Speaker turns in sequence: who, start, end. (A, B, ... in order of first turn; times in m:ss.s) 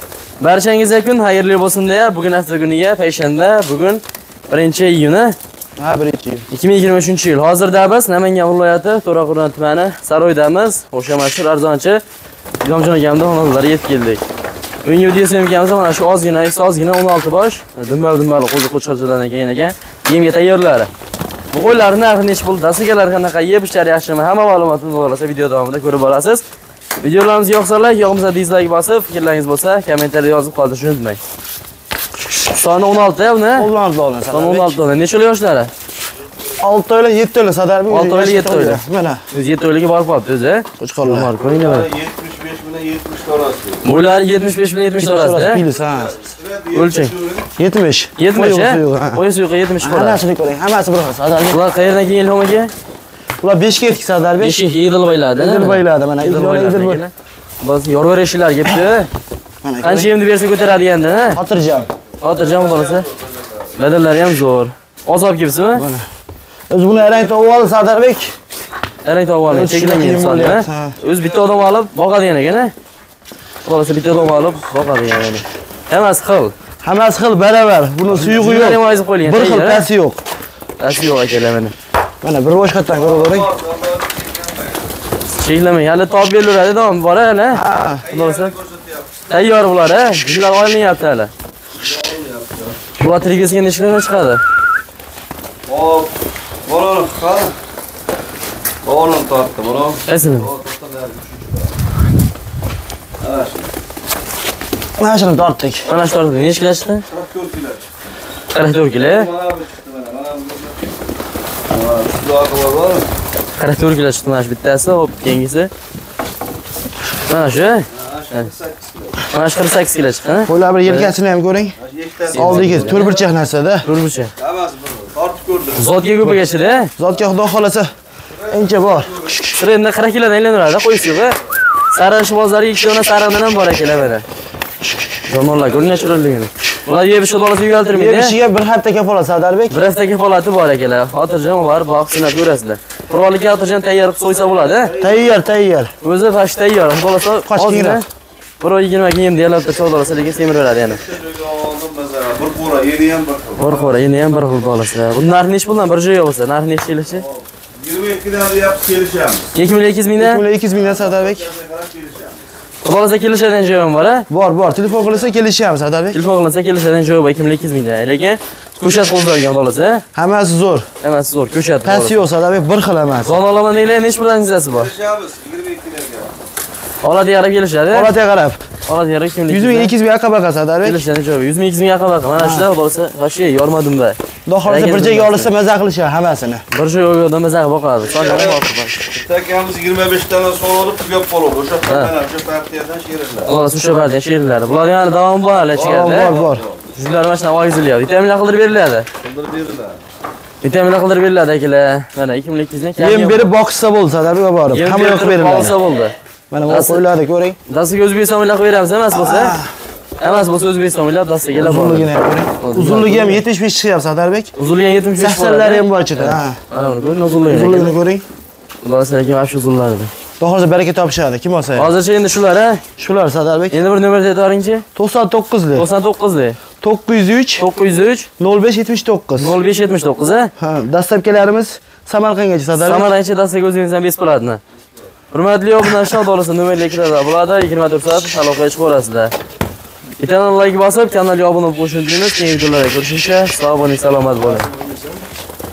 0:00.4-0:05.4 A
0:05.8-0:06.5 B
0:06.5-0:12.0 A
0:12.6-0:14.2 A
0:14.8-0:20.9 A
0:21.5-0:26.4 A
0:27.0-0:31.2 A
0:32.3-0:33.7 A
0:33.5-0:34.8 B
0:34.3-0:35.7 A
0:36.6-0:39.2 B
0:37.9-0:38.8 A
0:39.3-0:41.9 A
0:40.8-0:41.3 B
0:41.4-0:43.8 C
0:43.8-0:45.6 A
0:45.0-0:46.1 B
0:45.8-0:47.5 C
0:46.7-0:47.1 A
0:47.6-0:49.2 B
0:48.2-0:50.2 A
0:49.8-0:51.6 B
0:51.5-0:52.7 A
0:53.4-0:54.6 B
0:54.4-0:59.1 A
0:55.4-0:57.0 B
0:59.6-1:00.1 B
0:59.8-1:01.4 A
1:01.3-1:01.9 B
1:02.2-1:03.0 A
1:02.3-1:03.6 C
1:03.7-1:05.8 A
1:05.7-1:06.0 B
1:06.7-1:08.3 B
1:09.0-1:12.7 A
1:09.5-1:11.0 B
1:11.1-1:11.5 C
1:13.6-1:16.5 A
1:16.8-1:20.2 B
1:18.1-1:19.8 A
1:20.8-1:21.7 A
1:22.2-1:23.5 B
1:22.9-1:24.8 C
1:25.4-1:28.5 A
1:27.5-1:28.1 B
1:28.0-1:29.3 C
1:29.3-1:31.3 A
1:31.8-1:32.8 C
1:33.0-1:34.4 A
1:35.7-1:37.6 C
1:38.8-1:41.7 C
1:40.0-1:40.5 A
1:43.2-1:43.7 C
1:45.0-1:45.8 B
1:45.8-1:47.0 A
1:47.1-1:47.9 C
1:48.5-1:49.3 A
1:48.9-1:50.9 C
1:51.7-1:53.0 C
1:53.6-1:55.7 A
1:57.3-1:58.5 A
1:57.9-1:59.2 C
1:59.3-2:01.1 A
2:00.4-2:01.8 B
2:01.8-2:03.0 C
2:02.3-2:03.2 A
2:02.3-2:03.9 B
2:03.8-2:04.3 A
2:04.4-2:05.9 C
2:05.7-2:06.9 A
2:07.0-2:07.9 B
2:08.4-2:09.3 C
2:08.5-2:09.2 B
2:09.4-2:11.4 A
2:11.9-2:14.2 A
2:15.3-2:18.3 A
2:17.9-2:19.8 B
2:19.7-2:24.9 A
2:24.6-2:25.4 C
2:25.0-2:25.9 B
2:26.0-2:28.0 A
2:27.4-2:28.0 B
2:28.6-2:31.0 A
2:30.9-2:33.9 C
2:33.6-2:37.2 A
2:37.2-2:39.5 C
2:39.5-2:40.4 A
2:40.2-2:41.5 B
2:40.7-2:42.4 C
2:42.8-2:44.2 A
2:44.3-2:46.2 B
2:46.1-2:50.0 A
2:50.1-2:50.9 B
2:51.0-2:52.2 A
2:51.8-2:53.3 B
2:53.2-2:54.9 A
2:54.7-2:56.3 C
2:57.0-2:58.1 A
2:57.9-2:58.6 B
2:58.9-2:59.9 A
2:59.5-3:01.0 B
3:00.8-3:05.5 A
3:02.4-3:02.7 B
3:04.4-3:06.6 B
3:06.7-3:09.0 A
3:08.0-3:13.5 C
3:13.4-3:16.3 A
3:15.7-3:16.8 C
3:15.8-3:16.6 B
3:16.9-3:19.1 A
3:19.2-3:20.0 C
3:20.6-3:23.5 A
3:23.0-3:25.7 B
3:24.7-3:26.1 A
3:26.5-3:27.6 B
3:26.7-3:27.0 A
3:27.7-3:29.6 A
3:29.1-3:29.7 B
3:30.2-3:33.4 A
3:31.6-3:34.5 B
3:34.6-3:37.9 A
3:35.2-3:36.6 B
3:37.5-3:38.2 B
3:38.8-3:40.1 A
3:40.4-3:41.9 B
3:41.7-3:42.8 A
3:43.0-3:43.8 B
3:43.7-3:44.8 A
3:45.0-3:45.9 B
3:45.7-3:46.6 A
3:46.8-3:47.7 B
3:47.6-3:48.3 A
3:48.4-3:49.5 B
3:49.4-3:50.5 A
3:50.6-3:53.1 B
3:52.8-3:54.6 A
3:55.3-3:59.3 A
4:00.2-4:04.7 A
4:04.7-4:05.1 C